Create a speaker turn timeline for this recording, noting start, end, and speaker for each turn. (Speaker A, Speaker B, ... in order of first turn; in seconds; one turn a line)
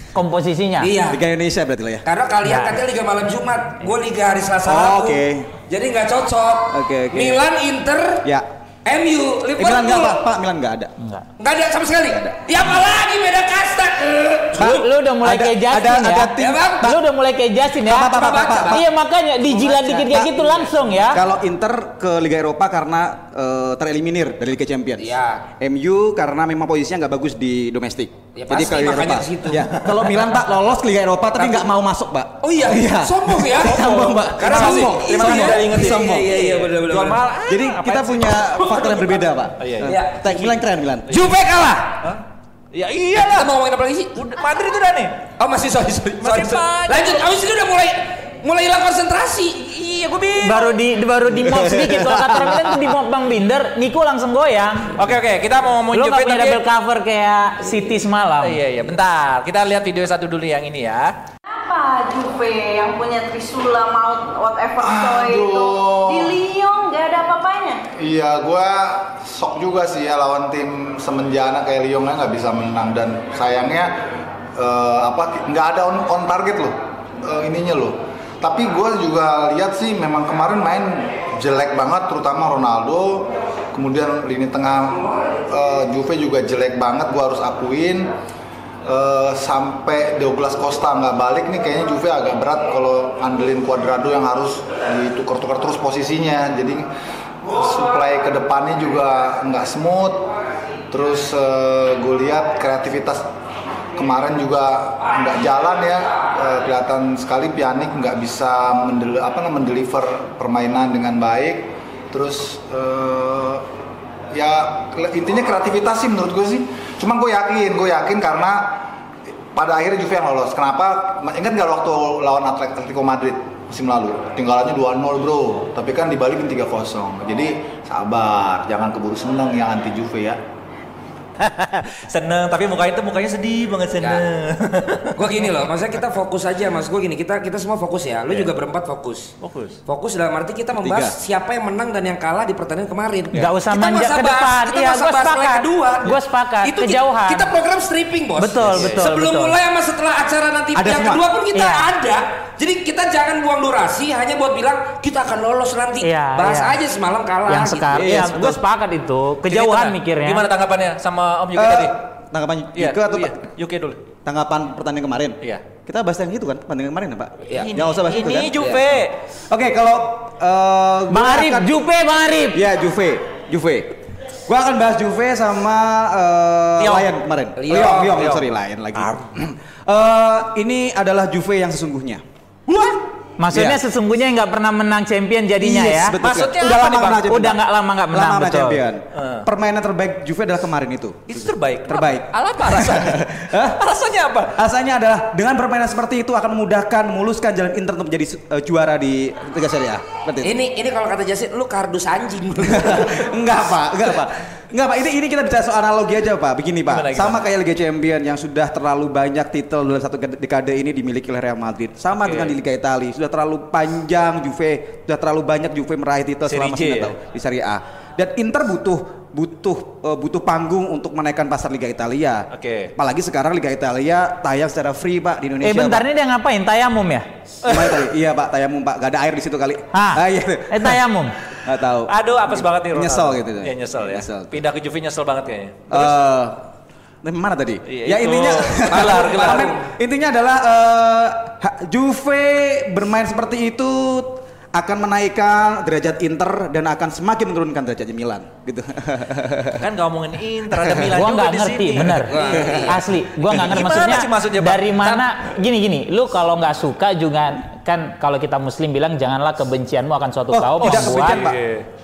Speaker A: 0.1-0.9
Speaker B: 0.8-1.2
Speaker C: 1.1-2.0
Speaker B: 2.0-8.3
Speaker A: 2.4-2.8
Speaker C: 4.7-5.5
Speaker C: 6.7-7.4
Speaker B: 8.8-10.2
Speaker C: 9.6-10.9
Speaker A: 11.0-11.3
Speaker B: 11.4-14.8
Speaker C: 14.6-16.9
Speaker A: 14.6-21.2
Speaker B: 16.4-16.9
Speaker C: 17.9-18.9
Speaker B: 18.0-18.8
Speaker B: 19.5-21.0
Speaker C: 21.1-36.3
Speaker B: 25.0-25.4
Speaker B: 28.4-29.7
Speaker B: 31.4-31.7
Speaker B: 32.4-33.8
Speaker D: 33.6-38.8
Speaker B: 34.4-37.3
Speaker C: 37.5-41.2
Speaker D: 39.6-40.0
Speaker B: 39.8-40.6
Speaker B: 41.1-42.0
Speaker D: 42.7-43.5
Speaker B: 43.2-44.2
Speaker D: 44.2-45.2
Speaker B: 45.4-50.2
Speaker D: 46.2-47.3
Speaker D: 50.0-50.8
Speaker A: 50.4-55.0
Speaker C: 51.5-52.7
Speaker D: 55.0-56.6
Speaker A: 55.9-58.6
Speaker D: 58.4-61.1
Speaker E: 61.5-67.8
Speaker F: 64.8-66.4
Speaker F: 68.0-74.0
Speaker F: 74.6-88.1
Speaker F: 88.9-96.9
Speaker F: 97.5-100.3
Speaker F: 100.9-103.2
Speaker F: 104.0-113.7
Speaker F: 114.3-118.9
Speaker F: 119.5-130.4
Speaker D: 131.4-135.5
Speaker B: 135.2-139.3
Speaker D: 139.4-139.8
Speaker B: 139.9-158.1
Speaker C: 140.8-141.2
Speaker A: 143.3-147.5
Speaker A: 148.4-149.6
Speaker D: 148.7-149.1
Speaker C: 150.8-151.2
Speaker A: 151.5-151.9
Speaker A: 156.0-156.8
Speaker A: 157.5-160.4
Speaker C: 157.9-158.6
Speaker D: 159.5-162.0
Speaker C: 161.6-163.4
Speaker D: 162.8-164.0
Speaker C: 164.2-171.7
Speaker D: 167.6-169.2
Speaker A: 171.1-172.6
Speaker C: 172.5-182.2
Speaker D: 176.8-177.1
Speaker B: 177.6-178.2
Speaker D: 178.0-179.2
Speaker A: 183.4-186.2
Speaker C: 183.5-183.8
Speaker C: 185.6-193.8
Speaker D: 186.2-187.3
Speaker A: 187.2-188.8
Speaker D: 189.2-189.5
Speaker D: 191.3-194.6
Speaker C: 194.5-200.6
Speaker B: 200.4-203.3
Speaker C: 202.7-226.1
Speaker D: 206.9-207.4
Speaker D: 212.2-212.5
Speaker D: 216.5-217.1
Speaker D: 222.5-222.9
Speaker A: 225.6-227.3
Speaker D: 227.6-228.0
Speaker C: 227.6-231.0
Speaker A: 229.9-231.3
Speaker C: 231.6-234.6
Speaker D: 232.1-236.1
Speaker C: 235.9-236.6
Speaker C: 237.2-249.9
Speaker D: 237.9-239.7
Speaker B: 238.9-239.8
Speaker D: 249.8-252.9
Speaker A: 251.1-261.4
Speaker B: 252.3-253.0
Speaker D: 253.4-255.3
Speaker C: 260.5-261.6
Speaker D: 260.8-261.9